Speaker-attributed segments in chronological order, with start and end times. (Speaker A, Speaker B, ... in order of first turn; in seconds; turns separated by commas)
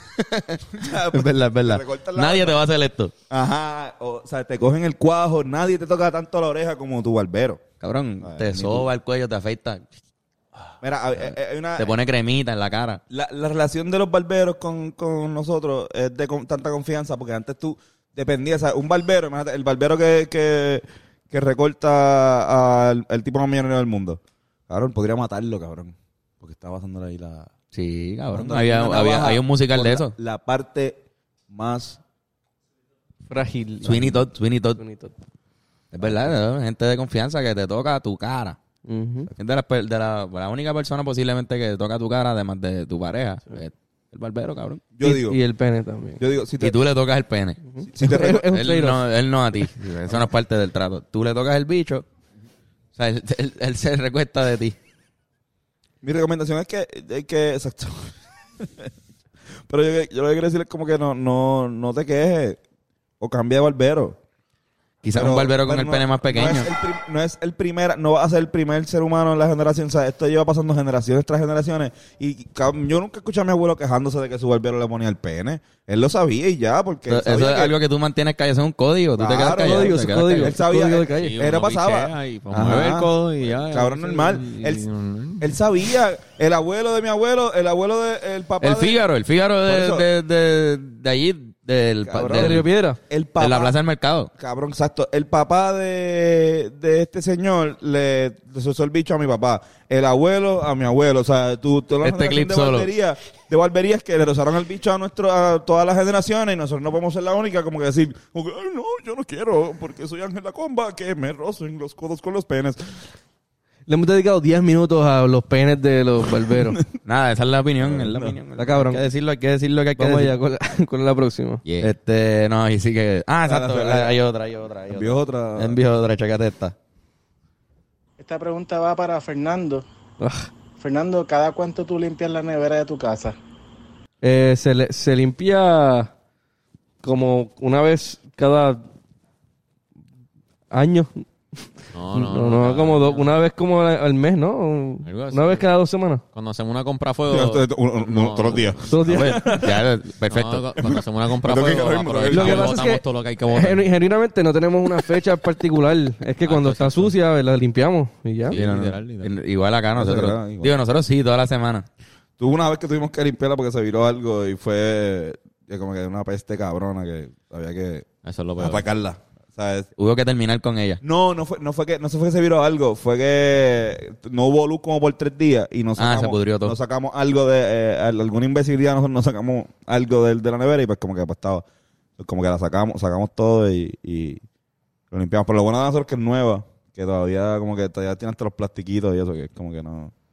Speaker A: 0.1-3.1, Speaker B: 0.7-2.6, Speaker B: 3.3-7.6, Speaker A: 7.8-9.9, Speaker B: 8.2-8.9, Speaker B: 10.8-11.9, Speaker A: 11.2-13.0, Speaker B: 13.1-27.5, Speaker A: 27.7-30.1, Speaker B: 28.3-32.0, Speaker C: 33.3-34.2, Speaker A: 33.8-34.8, Speaker C: 34.8-35.1, Speaker A: 35.9-38.6, Speaker C: 38.8-39.3, Speaker A: 39.3-44.8, Speaker B: 44.9-45.4, Speaker C: 45.0-46.2, Speaker B: 46.2-46.8, Speaker A: 46.6-47.6, Speaker C: 47.7-49.0, Speaker B: 47.9-48.4, Speaker A: 48.1-52.0, Speaker A: 52.9-54.8, Speaker B: 56.0-58.9, Speaker B: 59.7-62.6, Speaker B: 63.2-64.2, Speaker A: 65.0-66.7, Speaker B: 65.1-77.7, Speaker A: 77.1-80.6, Speaker B: 79.2-84.8, Speaker C: 79.4-81.4, Speaker D: 81.2-85.6, Speaker B: 85.4-89.0, Speaker A: 88.6-92.6, Speaker B: 89.6-90.0, Speaker B: 92.0-93.7, Speaker C: 92.3-93.0, Speaker A: 93.4-94.3, Speaker B: 94.3-113.0, Speaker A: 102.0-102.9, Speaker C: 113.9-116.8, Speaker A: 117.0-120.3, Speaker B: 117.8-118.4, Speaker C: 118.6-119.0, Speaker C: 120.0-121.6, Speaker D: 121.6-121.9, Speaker A: 121.8-126.7, Speaker B: 123.5-124.1, Speaker B: 124.9-125.8, Speaker E: 128.2-129.8, Speaker C: 130.2-130.5, Speaker E: 130.8-133.4, Speaker C: 134.2-136.1, Speaker C: 137.0-138.9, Speaker C: 140.7-141.2, Speaker D: 141.9-143.3, Speaker C: 142.1-146.2, Speaker D: 145.0-145.7, Speaker D: 146.3-149.3, Speaker B: 147.3-149.7, Speaker C: 148.9-149.7, Speaker A: 149.2-150.8, Speaker D: 150.3-153.8, Speaker B: 150.8-152.8, Speaker C: 152.3-158.6, Speaker D: 156.4-157.1, Speaker D: 158.5-159.4, Speaker A: 158.5-161.8, Speaker B: 159.9-160.7, Speaker B: 162.4-169.9, Speaker D: 168.2-168.9, Speaker A: 170.0-171.0, Speaker B: 171.0-181.6, Speaker A: 176.0-176.8, Speaker B: 182.2-184.4, Speaker B: 185.1-190.1